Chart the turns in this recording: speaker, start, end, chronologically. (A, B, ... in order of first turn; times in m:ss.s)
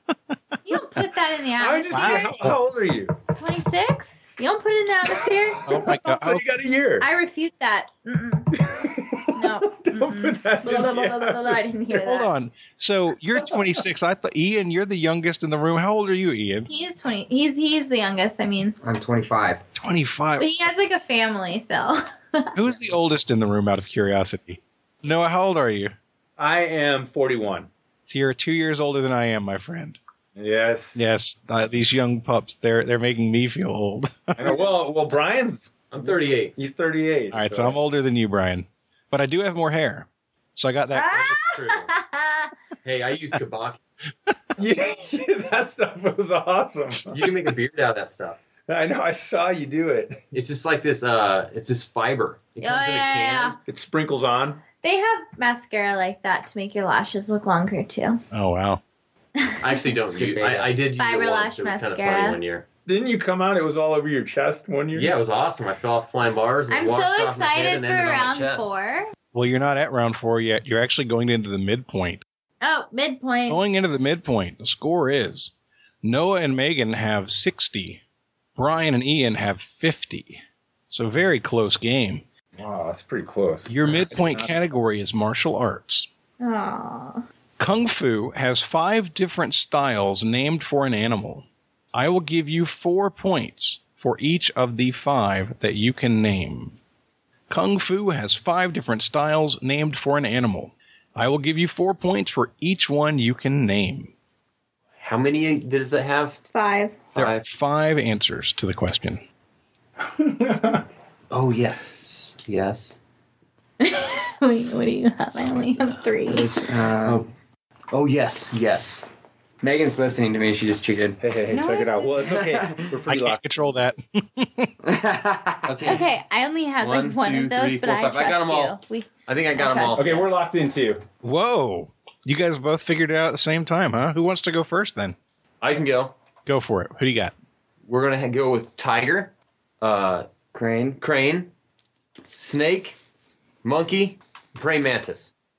0:00.7-0:02.5 A
0:01.6-0:03.1 B
0:01.9-0:02.6 C
0:03.4-0:05.6 A
0:05.6-0:06.5 C
0:05.7-0:07.1 B
0:07.0-0:08.6 A
0:08.5-0:11.6 B
0:09.3-0:12.3 A
0:11.9-0:16.7 C
0:16.7-0:18.8 A
0:18.8-0:19.6 D
0:19.8-0:20.5 C
0:20.4-0:22.5 A
0:22.6-0:25.9 C
0:26.4-0:27.7 B
0:28.1-0:30.0 C
0:30.4-0:31.0 B
0:31.0-0:34.6 C
0:34.4-0:37.8 B
0:35.9-0:36.5 E
0:37.3-0:41.4 C
0:40.9-0:42.5 A
0:41.1-0:41.9 E
0:42.8-0:43.8 E
0:44.6-0:47.2 B
0:47.1-0:48.4 E
0:48.7-0:50.2 B
0:50.3-0:53.6 E
0:52.6-0:53.6 A
0:53.7-0:54.6 B
0:54.8-0:58.2 A
0:58.3-0:58.8 C
0:59.4-0:59.9 A
0:59.6-1:02.6 E
1:00.1-1:00.8 D
1:01.0-1:02.4 A
1:02.9-1:05.1 B
1:04.9-1:08.7 E
1:06.7-1:09.1 A
1:09.3-1:12.2 C
1:12.6-1:13.6 A
1:13.5-1:15.5 C
1:16.0-1:18.0 C
1:18.6-1:22.2 C
1:22.6-1:24.5 B
1:23.7-1:26.1 C
1:26.4-1:27.2 A
1:27.6-1:36.8 C
1:37.5-1:44.1 C
1:45.0-1:46.4 E
1:46.5-1:47.0 A
1:47.1-1:47.5 E
1:47.2-1:49.2 C
1:50.2-1:50.8 B
1:51.3-1:53.0 E
1:53.8-1:56.5 A
1:56.3-1:57.3 D
1:57.0-1:57.3 E
1:57.9-1:59.1 E
1:59.6-2:01.2 D
2:01.2-2:03.5 B
2:01.5-2:02.3 A
2:02.2-2:02.9 D
2:03.1-2:04.7 C
2:04.8-2:06.0 D
2:05.7-2:06.1 E
2:05.8-2:10.3 A
2:06.8-2:10.1 E
2:10.0-2:11.0 B
2:11.2-2:15.2 C
2:15.6-2:16.2 E
2:16.5-2:17.3 C
2:17.9-2:20.3 E
2:20.5-2:21.0 D
2:21.0-2:21.5 E
2:22.4-2:23.0 E
2:23.6-2:25.3 E